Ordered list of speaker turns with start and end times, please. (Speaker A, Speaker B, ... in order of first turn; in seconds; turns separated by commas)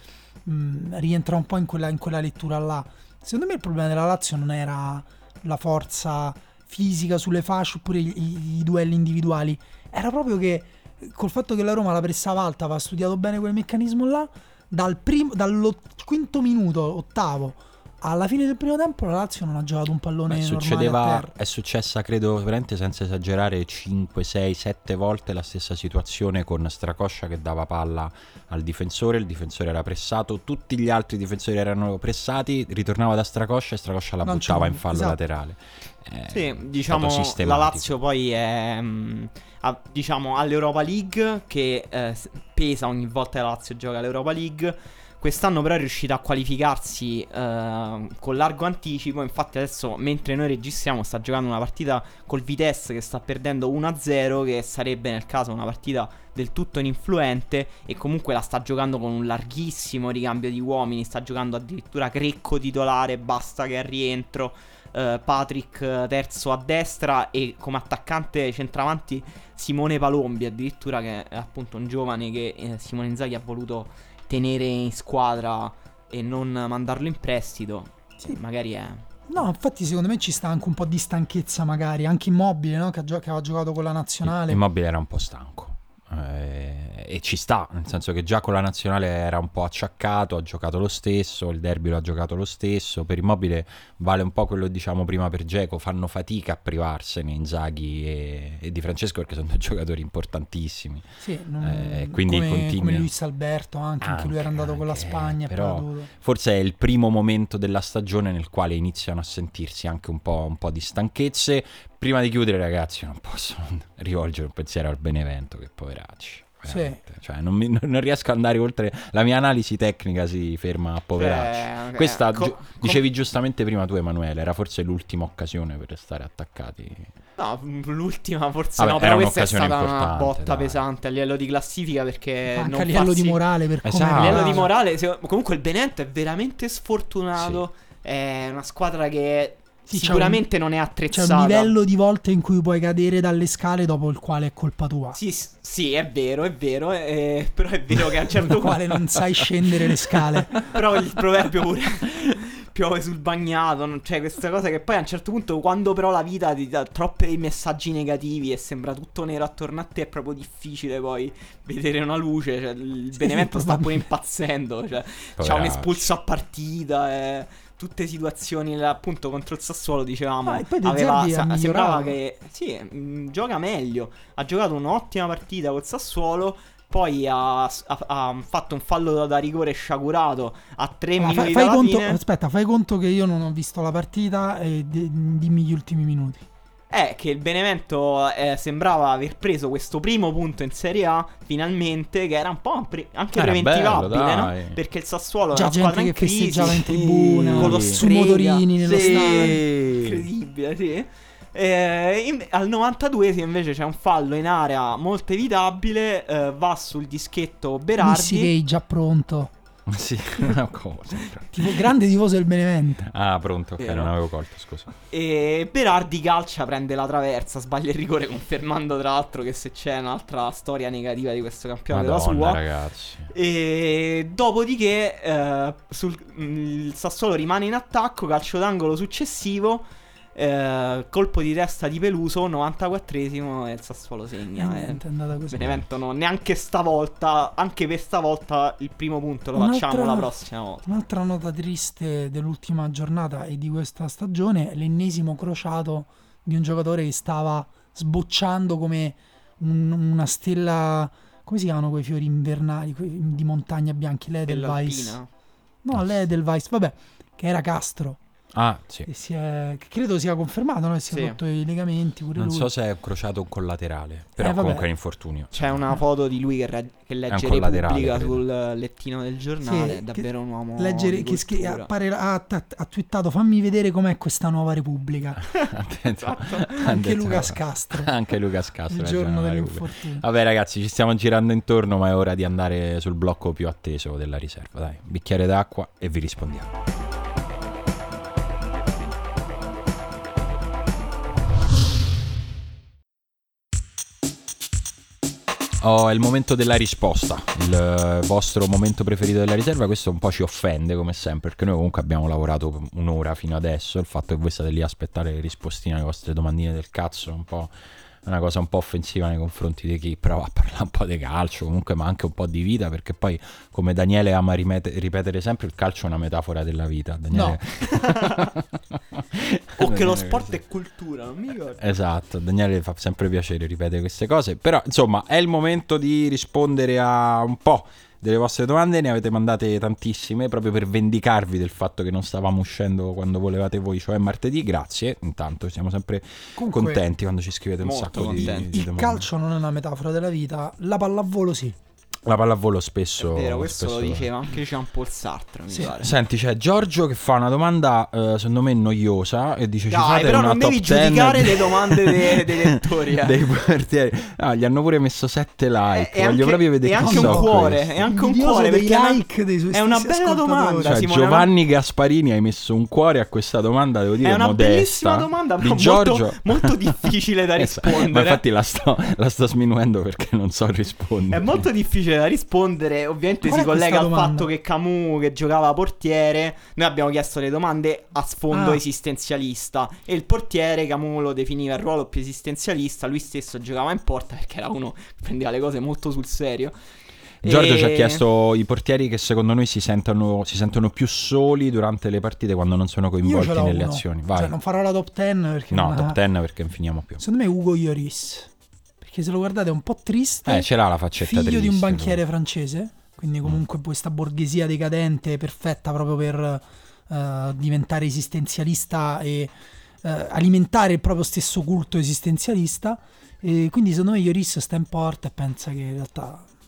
Speaker A: 0.4-21.3, Speaker B: 20.3-37.9, Speaker A: 34.2-35.2, Speaker C: 36.3-79.0, Speaker A: 79.3-84.6, Speaker B: 84.2-101.0, Speaker A: 101.2-106.1, Speaker B: 101.6-103.1, Speaker B: 104.0-127.1, Speaker A: 116.7-117.0, Speaker C: 121.2-123.0, Speaker C: 127.4-133.4, Speaker B: 128.8-130.8, Speaker A: 132.5-134.7, Speaker B: 133.8-134.7, Speaker C: 134.1-141.7, Speaker B: 137.4-137.6, Speaker A: 139.9-140.4, Speaker A: 141.1-145.2, Speaker C: 145.1-149.4, Speaker A: 148.4-150.7, Speaker C: 150.6-182.2, Speaker A: 163.1-164.0, Speaker B: 165.4-166.1, Speaker A: 170.4-172.2, Speaker A: 181.2-186.4, Speaker C: 186.9-208.5, Speaker B: 193.3-194.8, Speaker A: 195.5-199.6, Speaker B: 196.8-198.0, Speaker B: 198.9-200.3, Speaker A: 208.0-209.5, Speaker B: 209.9-211.8, Speaker A: 211.5-213.1, Speaker B: 213.1-214.9, Speaker C: 213.8-214.1, Speaker C: 215.1-222.6, Speaker B: 221.9-223.3, Speaker C: 223.3-240.8, Speaker A: 234.6-235.8, Speaker B: 235.6-235.8, Speaker A: 239.5-240.3, Speaker A: 240.8-255.2, Speaker C: 254.4-255.3, Speaker A: 255.8-258.2, Speaker B: 258.5-259.1, Speaker A: 259.1-262.7, Speaker C: 261.1-261.4, Speaker B: 262.4-266.0, Speaker A: 264.4-264.9, Speaker C: 265.5-271.9, Speaker B: 267.3-268.4, Speaker A: 269.6-275.4, Speaker B: 275.4-286.7, Speaker C: 275.5-276.7, Speaker A: 276.8-278.1, Speaker A: 278.9-280.2, Speaker B: 295.8-307.7, Speaker B: 308.2-320.6, Speaker A: 317.3-317.6, Speaker C: 317.9-318.5, Speaker C: 319.8-321.8, Speaker B: 321.8-339.2, Speaker A: 336.6-337.0, Speaker C: 337.8-338.7, Speaker A: 338.2-341.8, Speaker B: 342.2-344.3, Speaker C: 343.2-346.1, Speaker B: 345.9-358.1, Speaker C: 349.9-353.4, Speaker C: 355.9-361.5, Speaker A: 357.0-360.9, Speaker B: 360.8-371.6, Speaker C: 364.2-368.4, Speaker C: 371.3-386.7, Speaker A: 373.4-374.5, Speaker A: 378.5-378.8, Speaker C: 387.4-388.2, Speaker B: 387.4-394.6, Speaker A: 393.2-396.2, Speaker B: 395.7-397.2, Speaker A: 397.2-398.5, Speaker A: 399.0-416.5, Speaker B: 400.5-402.2